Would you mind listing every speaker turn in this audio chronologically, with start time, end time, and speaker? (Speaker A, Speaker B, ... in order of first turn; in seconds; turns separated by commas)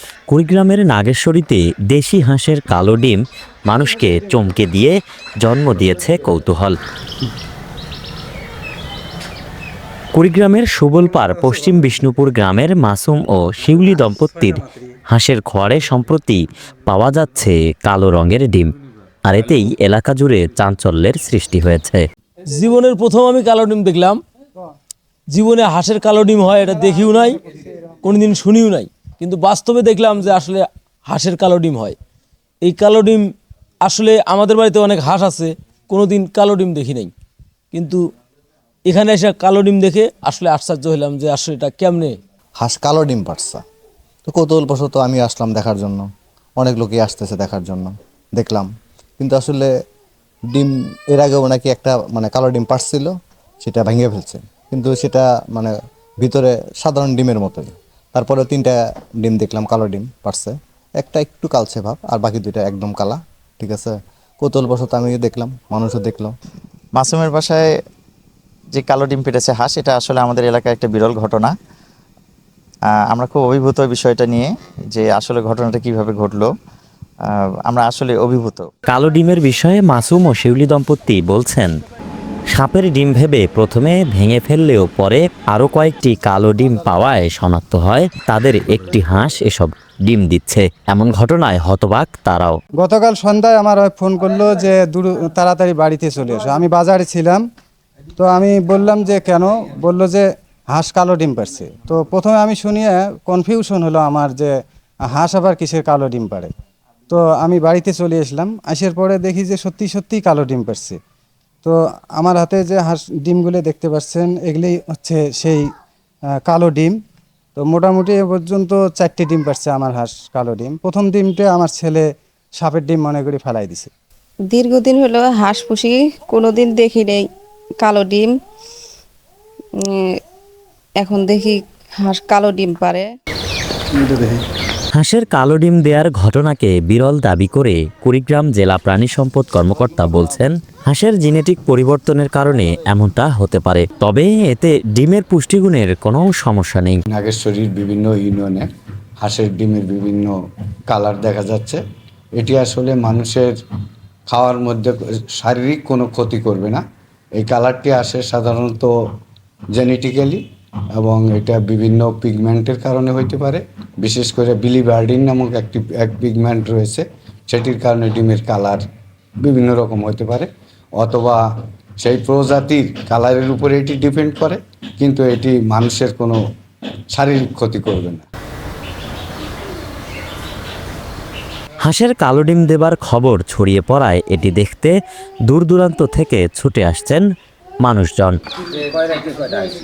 Speaker A: 0.3-6.8, Speaker A: 10.1-18.7, Speaker A: 19.2-22.0, Speaker B: 22.5-24.2, Speaker B: 25.3-27.4, Speaker B: 28.0-31.9, Speaker B: 32.6-37.1, Speaker B: 37.7-38.0, Speaker B: 38.8-42.2, Speaker C: 42.6-43.6, Speaker C: 44.3-46.1, Speaker C: 46.6-49.7, Speaker C: 50.5-66.3, Speaker D: 67.0-67.6, Speaker D: 68.8-71.5, Speaker D: 73.1-74.4, Speaker D: 75.1-76.4, Speaker D: 77.8-78.6, Speaker A: 78.9-81.7, Speaker A: 82.5-92.6, Speaker E: 92.8-97.5, Speaker E: 98.2-104.5, Speaker E: 105.0-106.5, Speaker E: 107.1-111.0, Speaker E: 111.6-115.7, Speaker E: 116.4-117.0, Speaker E: 117.5-123.9, Speaker F: 124.5-127.3, Speaker F: 127.8-128.3, Speaker F: 129.8-130.1, Speaker F: 131.0-133.1, Speaker A: 134.9-147.0, Speaker G: 147.1-148.7, Speaker G: 149.2-150.3, Speaker G: 150.9-151.8, Speaker G: 152.4-153.5, Speaker G: 154.3-156.8, Speaker G: 157.3-158.9, Speaker G: 159.7-160.4, Speaker G: 161.0-168.8, Speaker G: 169.4-171.4, Speaker G: 172.0-176.4, Speaker G: 177.1-178.2, Speaker A: 181.8-187.2, Speaker A: 187.8-188.4